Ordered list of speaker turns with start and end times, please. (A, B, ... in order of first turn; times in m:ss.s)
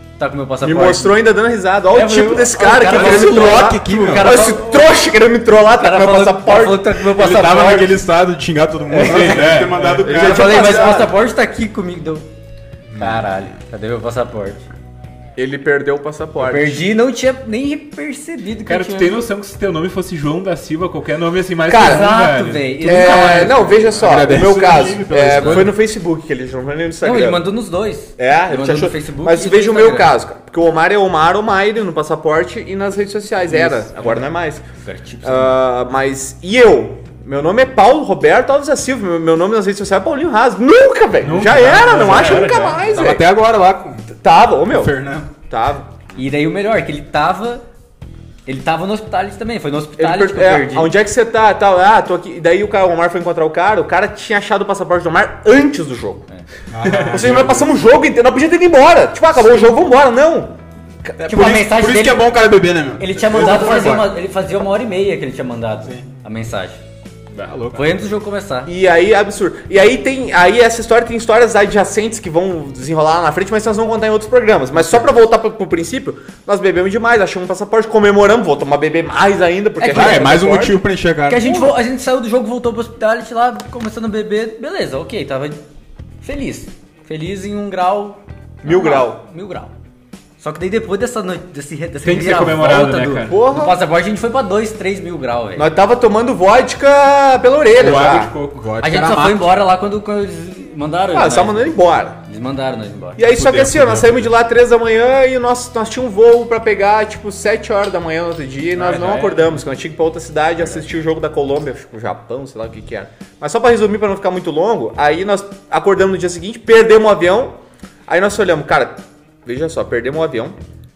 0:00.2-0:01.2 A
0:00.6-0:07.0 B
0:01.9-0:04.9 A
0:02.7-0:04.6 C
0:05.8-0:08.0 A
0:07.1-0:11.1 C
0:08.9-0:12.2 A
0:09.0-0:10.0 D
0:09.9-0:11.1 B
0:12.9-0:13.5 C
0:13.0-0:14.7 A
0:15.4-0:16.8 B
0:16.4-0:19.2 A
0:18.6-0:23.7 D
0:21.7-0:22.1 B
0:21.7-0:24.0 A
0:22.8-0:27.5 B
0:24.0-0:25.8 C
0:25.3-0:25.7 A
0:27.0-0:30.2 A
0:28.2-0:34.6 B
0:33.5-0:34.1 A
0:34.8-0:35.6 A
0:35.2-0:43.2 B
0:41.2-0:43.0 D
0:42.0-0:44.1 C
0:44.2-0:44.9 B
0:44.7-0:45.3 C
0:45.5-0:45.9 B
0:46.1-0:47.6 A
0:48.4-0:50.9 A
0:50.0-0:56.2 B
0:56.7-0:57.7 C
0:56.8-0:57.6 D
0:57.1-1:00.5 B
1:01.0-1:01.4 B
1:01.2-1:04.1 C
1:01.2-1:02.3 A
1:03.0-1:06.8 A
1:07.4-1:07.8 C
1:07.7-1:08.7 A
1:08.6-1:20.8 B
1:19.8-1:20.4 A
1:19.9-1:21.7 C
1:21.3-1:25.6 A
1:26.2-1:29.7 A
1:28.6-1:29.2 B
1:30.4-1:35.7 A
1:32.0-1:33.4 D
1:33.2-1:33.8 B
1:35.6-1:38.3 B
1:37.7-1:38.6 D
1:38.5-1:39.5 C
1:38.8-1:43.2 A
1:41.1-1:42.2 B
1:43.2-1:57.6 B
1:43.2-1:44.3 C
1:48.7-1:49.6 D
1:58.1-2:00.6 B